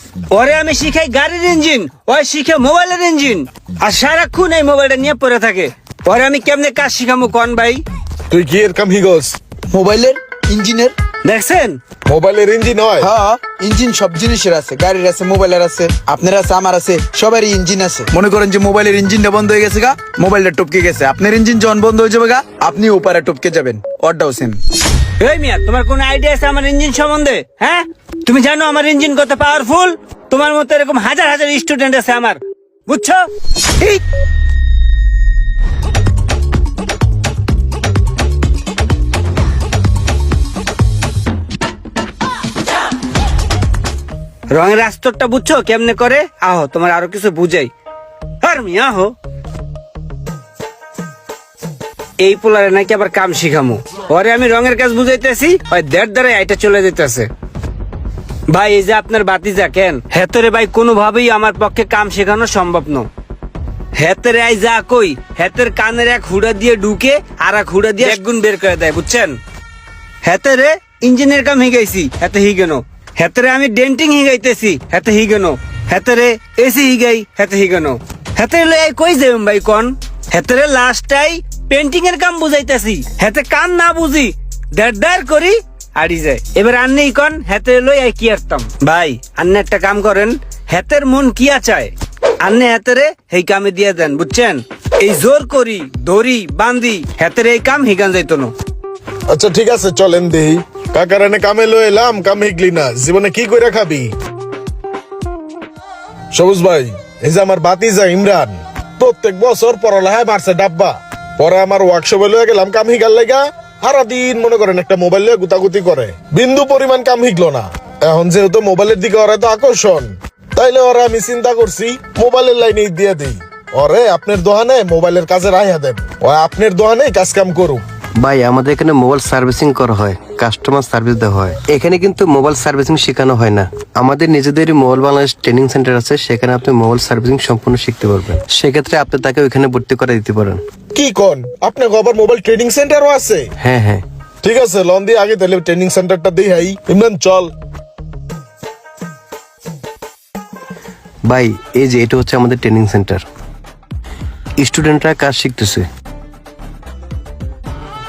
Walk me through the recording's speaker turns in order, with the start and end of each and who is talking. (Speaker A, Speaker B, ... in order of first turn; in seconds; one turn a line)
Speaker A: 0.3-7.8
Speaker B: 8.3-9.4
Speaker C: 9.7-10.9
Speaker A: 11.2-11.8
Speaker B: 12.1-13.1
Speaker C: 13.0-24.6
Speaker A: 25.2-33.3
Speaker A: 44.5-47.7
Speaker A: 48.4-49.1
Speaker A: 52.2-57.3
Speaker A: 58.5-63.1
Speaker A: 63.9-69.4
Speaker A: 70.2-91.9
Speaker A: 92.4-98.5
Speaker B: 99.3-104.1
Speaker B: 106.3-127.8
Speaker D: 128.2-140.6
Speaker B: 140.9-143.5
Speaker D: 143.6-144.0
Speaker B: 144.4-147.5
Speaker D: 151.3-153.2
Speaker D: 154.6-155.9